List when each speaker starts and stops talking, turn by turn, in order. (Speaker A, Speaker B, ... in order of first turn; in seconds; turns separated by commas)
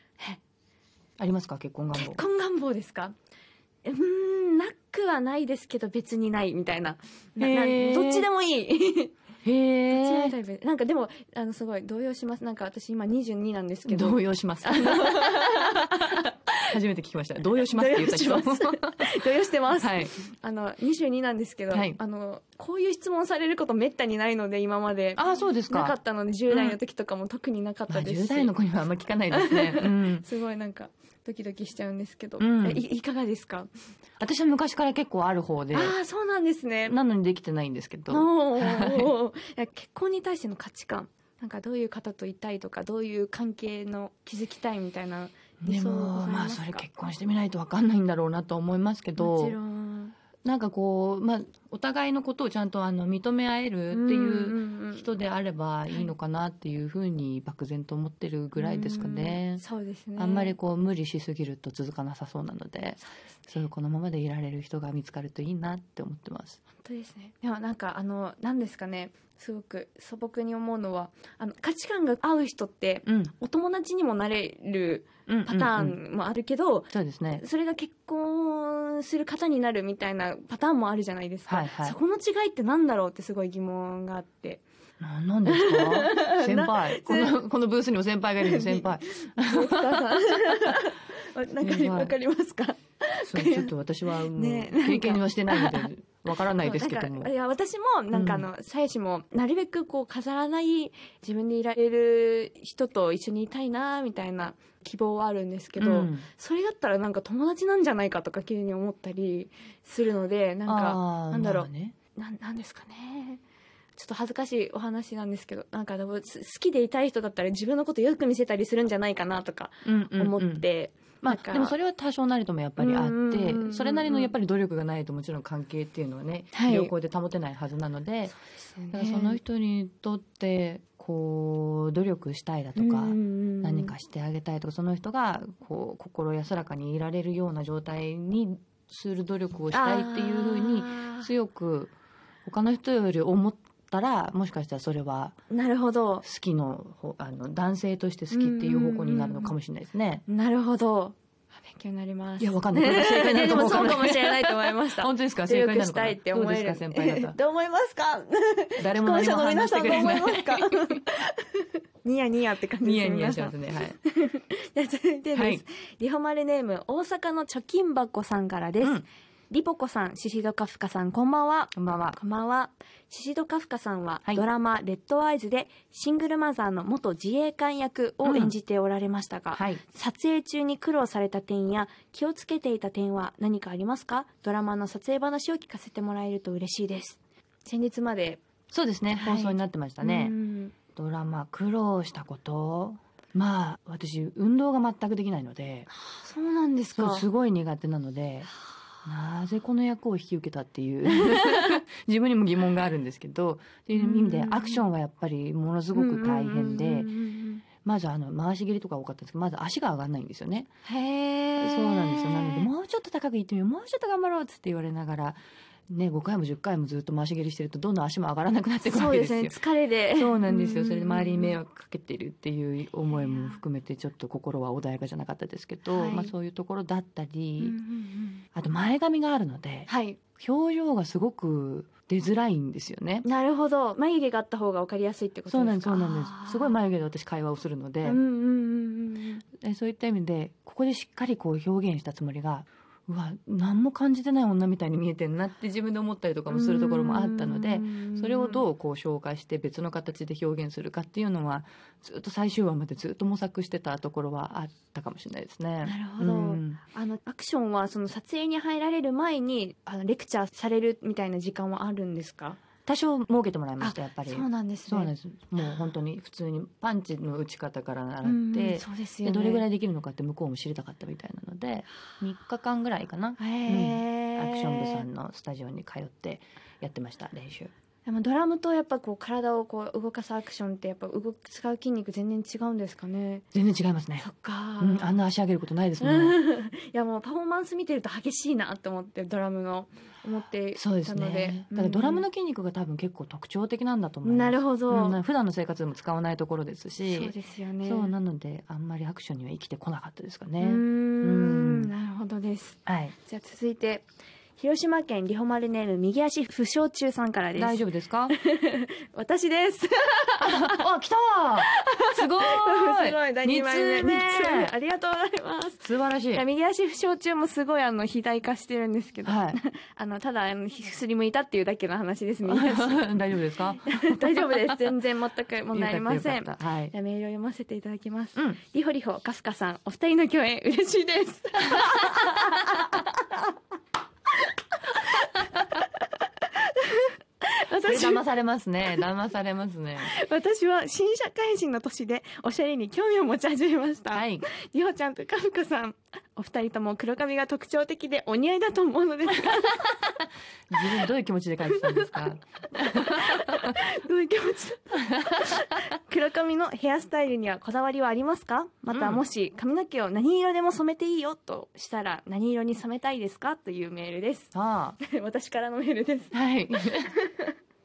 Speaker A: 1.2-2.2, Speaker B: 1.9-3.1, Speaker B: 3.9-9.2, Speaker A: 7.4-8.3, Speaker A: 9.4-10.3, Speaker B: 9.9-16.6, Speaker A: 13.9-16.2, Speaker A: 16.7-19.2, Speaker B: 17.7-28.5, Speaker A: 19.7-20.1, Speaker A: 21.7-22.0, Speaker A: 25.2-25.9, Speaker A: 26.5-26.8, Speaker A: 27.9-30.3, Speaker B: 29.3-33.7, Speaker A: 32.4-32.8, Speaker A: 34.2-36.0, Speaker B: 35.7-37.0, Speaker A: 36.9-39.1, Speaker B: 38.1-46.9, Speaker A: 45.6-49.6, Speaker B: 49.2-50.1, Speaker A: 50.4-59.6, Speaker B: 53.9-55.1, Speaker B: 58.6-60.6, Speaker A: 60.2-66.6, Speaker B: 63.0-63.3, Speaker B: 66.8-84.6, Speaker A: 73.1-73.3, Speaker A: 75.3-76.0, Speaker A: 76.9-77.4, Speaker A: 81.5-82.0, Speaker A: 85.0-90.7, Speaker B: 85.5-87.4, Speaker B: 88.4-95.9, Speaker A: 91.6-92.1, Speaker A: 93.2-97.3, Speaker B: 96.4-113.4, Speaker A: 98.1-98.5, Speaker A: 105.8-106.3, Speaker A: 110.7-112.0, Speaker B: 114.0-121.8, Speaker A: 119.8-120.7, Speaker A: 121.2-128.3, Speaker B: 122.8-124.3, Speaker B: 126.5-126.9, Speaker B: 128.3-129.4, Speaker A: 128.9-141.9, Speaker B: 132.8-133.9, Speaker B: 139.7-141.3, Speaker A: 142.4-145.4, Speaker B: 145.5-146.2, Speaker A: 146.2-150.2, Speaker B: 148.3-149.5, Speaker B: 150.3-188.4, Speaker A: 152.4-157.4, Speaker A: 158.8-161.0, Speaker A: 162.8-164.0, Speaker A: 165.3-165.6, Speaker A: 171.8-172.2, Speaker A: 178.2-178.5, Speaker A: 179.5-179.8, Speaker A: 188.7-190.3, Speaker B: 189.1-190.7, Speaker A: 190.9-195.9, Speaker B: 195.9-197.3, Speaker A: 197.0-198.5, Speaker A: 199.1-207.1, Speaker B: 201.1-201.8, Speaker B: 203.9-204.8, Speaker B: 205.9-207.6, Speaker A: 207.8-210.7, Speaker B: 210.8-212.7, Speaker A: 211.6-215.4, Speaker A: 215.9-219.6, Speaker B: 218.8-221.6, Speaker A: 220.1-227.8, Speaker B: 223.1-223.6, Speaker B: 225.9-226.3, Speaker B: 227.6-228.4, Speaker A: 228.5-233.2, Speaker B: 229.9-230.2, Speaker B: 233.2-236.7, Speaker A: 235.5-238.2, Speaker B: 238.0-239.4, Speaker A: 239.6-256.8, Speaker B: 246.5-248.7, Speaker B: 255.8-262.6, Speaker A: 262.9-277.7, Speaker B: 263.8-265.1, Speaker B: 268.2-269.6, Speaker B: 273.4-275.0, Speaker B: 278.1-283.5, Speaker A: 283.5-284.2, Speaker B: 284.2-285.2, Speaker A: 284.8-286.4, Speaker B: 286.0-292.2, Speaker A: 290.8-301.9, Speaker B: 294.2-295.2, Speaker B: 297.1-298.1, Speaker B: 300.6-304.1, Speaker A: 302.9-303.1, Speaker B: 304.6-310.9, Speaker A: 307.6-308.4, Speaker A: 310.4-314.7, Speaker B: 311.6-323.2, Speaker A: 315.8-316.4, Speaker A: 319.2-319.6, Speaker A: 322.5-324.7, Speaker B: 323.8-333.5, Speaker A: 325.7-326.9, Speaker B: 334.9-338.2, Speaker A: 337.9-340.1, Speaker B: 340.0-349.9, Speaker A: 344.1-344.5, Speaker A: 350.7-353.6, Speaker B: 351.7-367.6, Speaker A: 355.1-355.4, Speaker A: 358.9-359.2, Speaker A: 364.5-365.0, Speaker A: 366.3-367.1